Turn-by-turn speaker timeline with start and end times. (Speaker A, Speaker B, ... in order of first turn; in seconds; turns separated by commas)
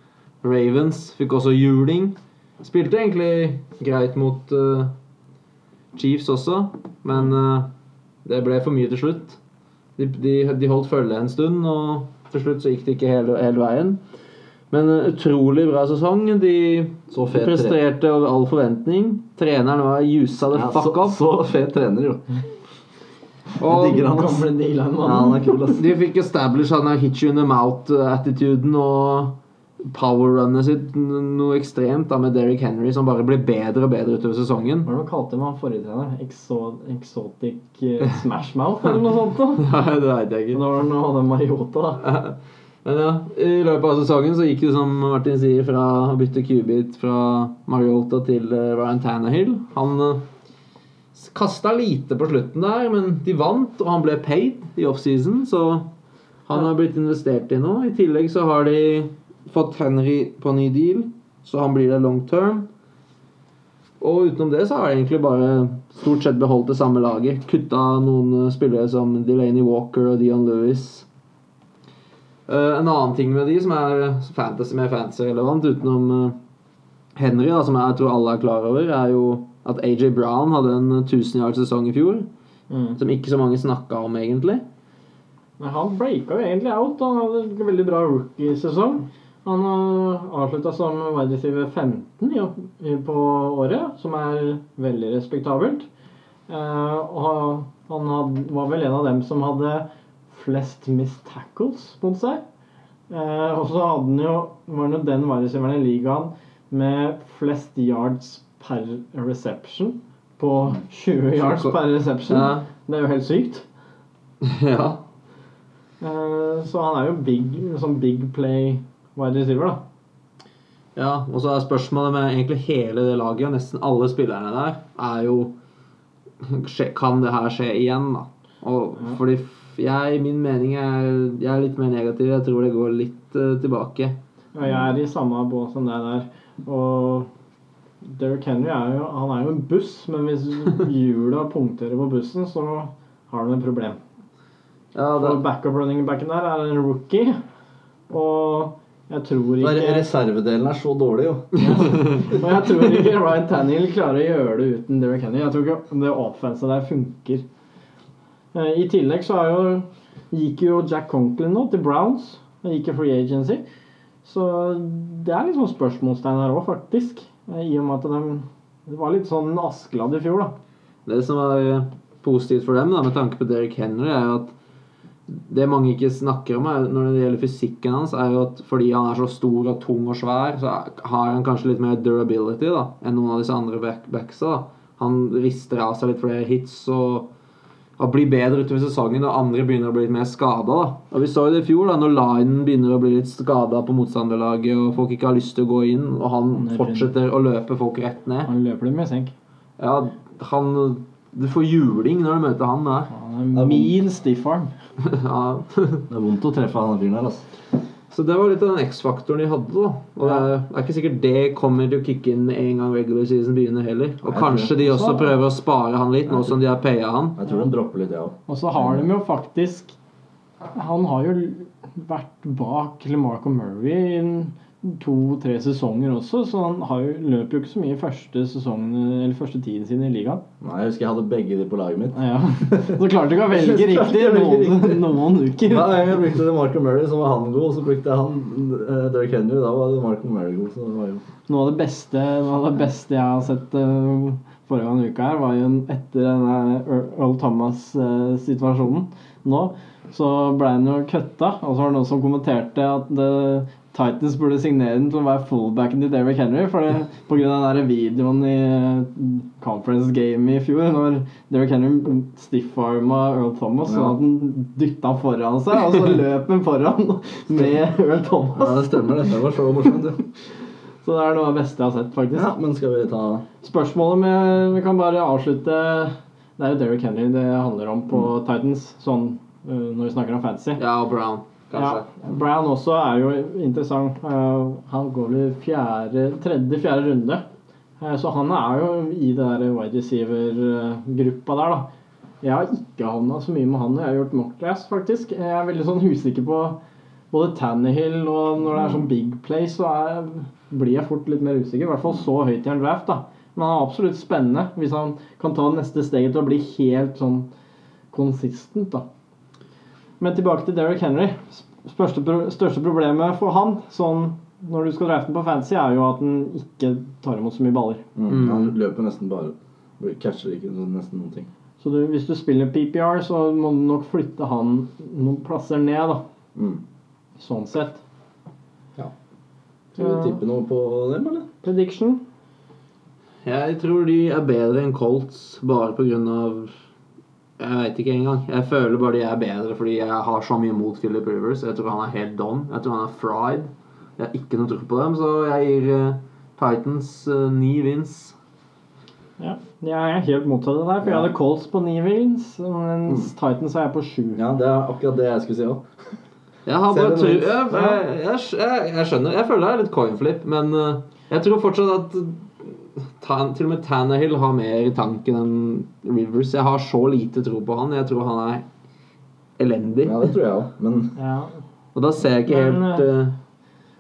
Speaker A: 0.4-4.9, Speaker A: 5.9-7.7, Speaker A: 8.2-9.4, Speaker A: 10.0-14.0, Speaker A: 14.7-21.2, Speaker B: 17.1-17.8, Speaker B: 20.5-22.2, Speaker A: 23.6-24.1, Speaker B: 23.6-24.5, Speaker C: 23.7-25.6, Speaker B: 25.0-25.9, Speaker A: 25.7-34.9, Speaker C: 34.9-39.7, Speaker A: 39.6-40.6, Speaker C: 40.5-42.0, Speaker A: 42.0-50.2, Speaker A: 51.1-55.9, Speaker A: 56.5-62.7, Speaker A: 64.0-71.1, Speaker A: 72.5-76.4, Speaker A: 77.2-82.3, Speaker C: 82.7-83.0, Speaker A: 83.0-84.6, Speaker C: 85.6-95.9, Speaker C: 96.5-102.4, Speaker C: 103.1-113.7, Speaker A: 111.4-112.7, Speaker A: 114.4-115.0, Speaker C: 116.0-119.8, Speaker A: 121.0-125.5, Speaker A: 126.4-134.2, Speaker C: 134.5-137.3, Speaker C: 138.0-144.0, Speaker A: 144.9-145.4, Speaker C: 145.2-147.4, Speaker C: 148.1-150.1, Speaker B: 149.6-152.4, Speaker C: 151.6-157.4, Speaker C: 158.5-163.6, Speaker C: 164.2-170.5, Speaker A: 171.1-174.6, Speaker A: 175.3-187.3, Speaker A: 188.0-198.5, Speaker C: 196.5-197.1, Speaker C: 198.5-199.3, Speaker A: 199.8-203.1, Speaker C: 203.1-204.7, Speaker B: 203.6-203.9, Speaker A: 205.0-206.0, Speaker B: 206.1-207.5, Speaker A: 208.1-217.4, Speaker B: 214.2-215.3, Speaker B: 216.3-216.5, Speaker B: 217.4-219.0, Speaker C: 218.5-219.9, Speaker C: 220.7-230.4, Speaker B: 230.6-241.2, Speaker C: 232.1-236.0, Speaker C: 241.5-269.3, Speaker B: 263.9-264.2, Speaker B: 268.6-270.2, Speaker C: 271.0-272.5, Speaker B: 272.3-273.4, Speaker C: 273.6-280.8, Speaker A: 280.8-282.1, Speaker C: 281.8-287.4, Speaker C: 288.0-291.9, Speaker C: 292.4-296.8, Speaker C: 297.3-307.5, Speaker C: 308.1-309.1, Speaker C: 310.2-318.0, Speaker B: 318.2-321.5, Speaker A: 318.3-318.7, Speaker C: 321.8-326.2, Speaker B: 326.6-326.8, Speaker C: 327.4-328.0, Speaker B: 329.9-331.5, Speaker C: 330.0-330.3, Speaker C: 331.6-332.2, Speaker A: 333.4-336.7, Speaker A: 337.6-348.4, Speaker C: 349.4-354.4, Speaker B: 351.0-351.3, Speaker B: 354.4-355.8, Speaker A: 356.7-368.6, Speaker B: 356.9-358.0, Speaker A: 369.6-370.3, Speaker B: 370.0-371.1, Speaker C: 371.2-371.5, Speaker A: 371.9-373.4, Speaker C: 372.5-373.1